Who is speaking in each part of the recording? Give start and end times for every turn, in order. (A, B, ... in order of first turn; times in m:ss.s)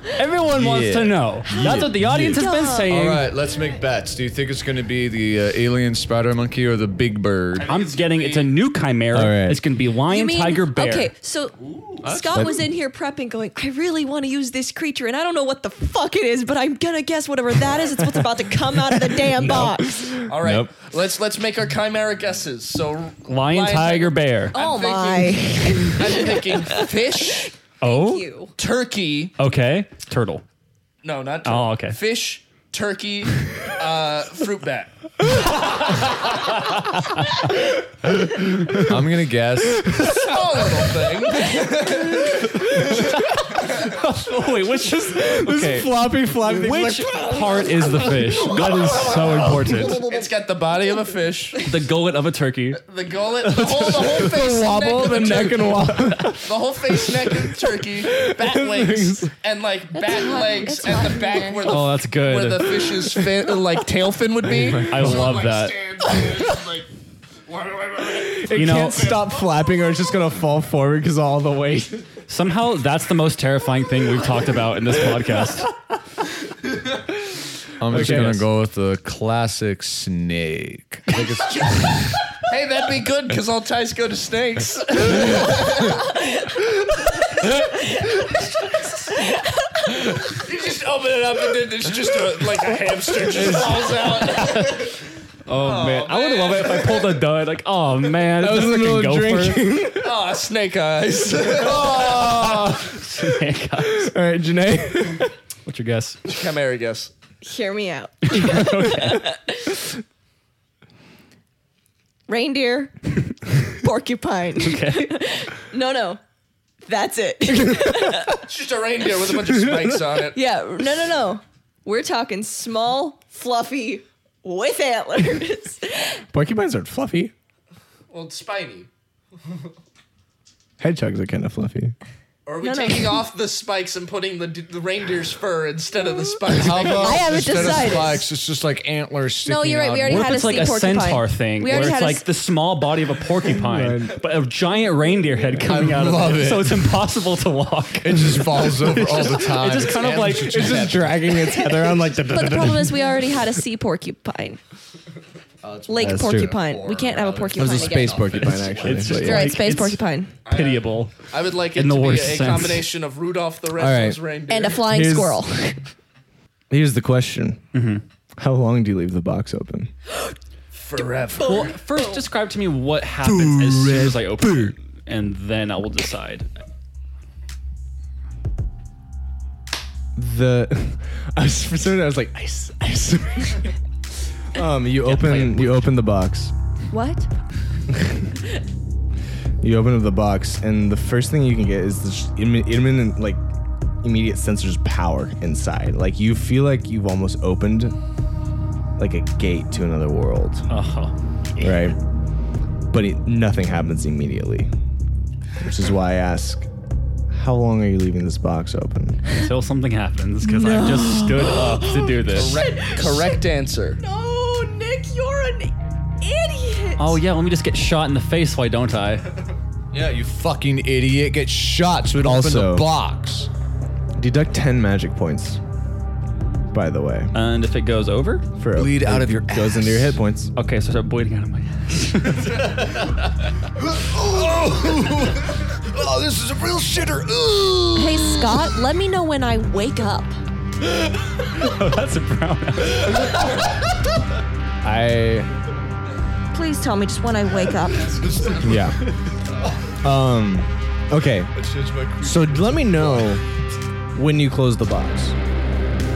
0:00.1-0:03.3 A
0:00.6-0:07.7 B
0:01.5-0:02.9 C
0:07.6-0:08.5 D
0:07.6-0:11.1 A
0:09.1-0:09.6 E
0:10.0-0:20.0 C
0:11.6-0:11.9 D
0:12.0-0:12.6 B
0:18.9-0:20.7 E
0:20.3-0:27.5 D
0:23.3-0:24.6 A
0:24.5-0:26.9 C
0:27.5-0:28.5 C
0:27.8-0:28.2 A
0:28.6-0:29.3 D
0:29.4-0:30.4 A
0:31.0-0:34.9 D
0:31.4-0:32.0 A
0:38.6-0:40.2 B
0:40.0-0:42.5 D
0:42.8-0:50.1 A
0:44.7-0:48.7 E
0:48.6-0:51.7 D
0:51.6-0:52.8 A
0:52.8-1:06.9 D
0:53.6-0:54.1 A
0:53.6-0:59.3 E
1:00.0-1:01.8 C
1:01.6-1:02.9 A
1:04.5-1:05.2 E
1:04.8-1:05.8 A
1:07.5-1:09.2 D
1:08.1-1:12.1 E
1:08.5-1:09.2 A
1:12.3-1:15.7 A
1:17.8-1:22.0 B
1:17.9-1:18.4 E
1:17.9-1:18.4 A
1:22.3-1:26.0 D
1:28.0-1:29.8 C
1:30.1-1:34.9 D
1:34.2-1:34.9 A
1:35.4-1:39.7 A
1:35.5-1:37.2 D
1:38.3-1:40.2 E
1:40.0-1:42.3 D
1:41.5-1:43.2 E
1:42.6-1:44.1 A
1:43.8-1:45.3 E
1:45.6-1:46.2 A
1:46.2-1:47.1 D
1:47.4-1:49.8 C
1:48.3-1:49.3 A
1:52.3-1:56.2 C
1:54.6-1:55.2 A
1:56.8-1:58.4 C
1:57.7-1:58.1 E
1:58.4-2:00.4 D
2:00.3-2:06.2 C
2:06.3-2:07.3 E
2:08.1-2:08.9 D
2:10.8-2:11.9 E
2:12.4-2:17.9 D
2:12.6-2:13.2 C
2:16.5-2:20.7 B
2:16.8-2:18.3 C
2:19.4-2:22.3 C
2:20.0-2:30.8 A
2:23.6-2:24.2 E
2:25.6-2:27.0 B
2:28.0-2:31.2 B
2:30.3-2:33.3 E
2:31.4-2:34.6 C
2:35.6-2:39.2 B
2:35.9-2:38.4 C
2:36.0-2:36.6 E
2:37.5-2:39.6 E
2:38.4-2:41.2 A
2:39.0-2:40.3 C
2:40.4-2:44.8 D
2:41.7-2:42.8 A
2:43.8-2:44.2 E
2:44.5-2:45.8 C
2:44.8-2:45.4 E
2:46.7-2:47.6 E
2:47.7-2:48.0 A
2:48.4-2:49.9 E
2:50.7-2:51.8 D
2:51.4-2:52.2 C
2:51.4-2:56.5 A
2:53.3-2:54.7 E
3:00.2-3:03.7 E
3:04.4-3:06.5 E
3:05.0-3:05.8 A
3:06.9-3:07.3 C
3:09.6-3:13.4 E
3:14.0-3:17.9 E
3:19.0-3:20.7 E
3:20.7-3:21.1 A
3:21.6-3:22.0 E
3:22.9-3:24.7 E
3:25.6-3:26.7 E
3:27.3-3:29.2 E
3:29.3-3:32.6 A
3:30.4-3:33.4 C
3:32.3-3:34.0 D
3:34.0-3:37.2 C
3:37.0-3:39.3 A
3:39.9-3:43.5 B
3:42.2-3:42.9 E
3:44.2-3:45.6 E
3:46.7-3:47.3 E
3:47.3-3:48.4 A
3:48.6-3:50.5 E
3:48.7-3:50.2 B
3:50.5-3:53.0 A
3:53.9-3:58.6 B
3:58.0-4:00.4 C
4:01.4-4:03.3 A
4:04.8-4:05.5 E
4:06.5-4:08.7 C
4:08.1-4:09.0 B
4:08.6-4:09.0 E
4:09.6-4:10.0 B
4:10.0-4:11.5 E
4:11.5-4:13.4 B
4:12.2-4:13.4 E
4:14.1-4:15.3 E